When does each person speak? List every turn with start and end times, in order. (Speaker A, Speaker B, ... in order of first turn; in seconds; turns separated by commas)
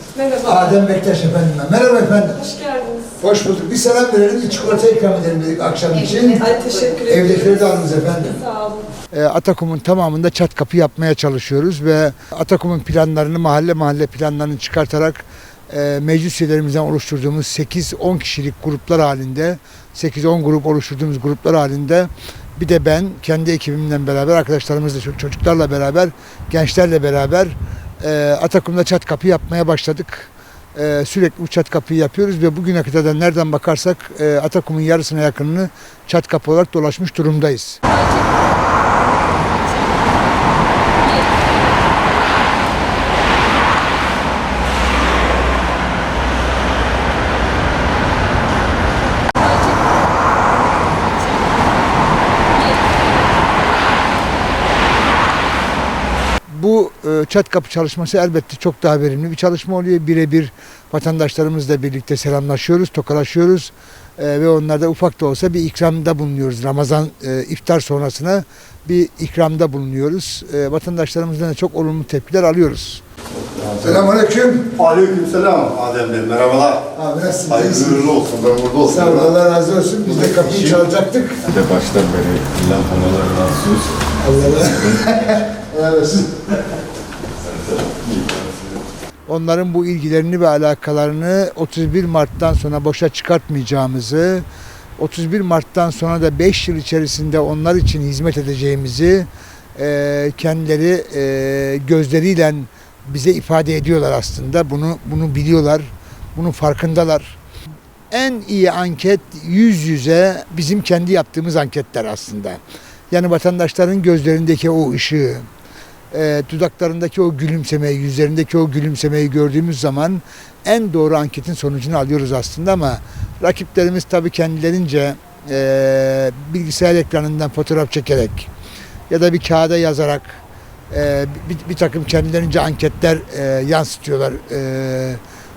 Speaker A: 0.2-0.6, Speaker B: 0.4-2.5, Speaker A: 2.4-3.0, Speaker B: 3.2-6.5, Speaker A: 6.4-7.4, Speaker B: 7.0-8.5, Speaker A: 8.5-8.8, Speaker B: 9.1-37.8, Speaker A: 37.9-38.3, Speaker A: 41.0-41.4, Speaker B: 56.5-73.0, Speaker C: 73.5-73.9, Speaker B: 73.8-74.8, Speaker C: 74.8-76.8, Speaker B: 76.9-78.1, Speaker C: 77.5-79.3, Speaker B: 78.8-81.4, Speaker C: 80.0-80.8, Speaker D: 81.5-84.0, Speaker B: 84.2-86.4, Speaker D: 84.6-85.1, Speaker D: 87.4-88.8, Speaker B: 89.3-94.5, Speaker B: 95.0-107.4, Speaker B: 108.1-112.6, Speaker B: 113.1-115.5, Speaker B: 116.1-128.5, Speaker B: 129.1-135.2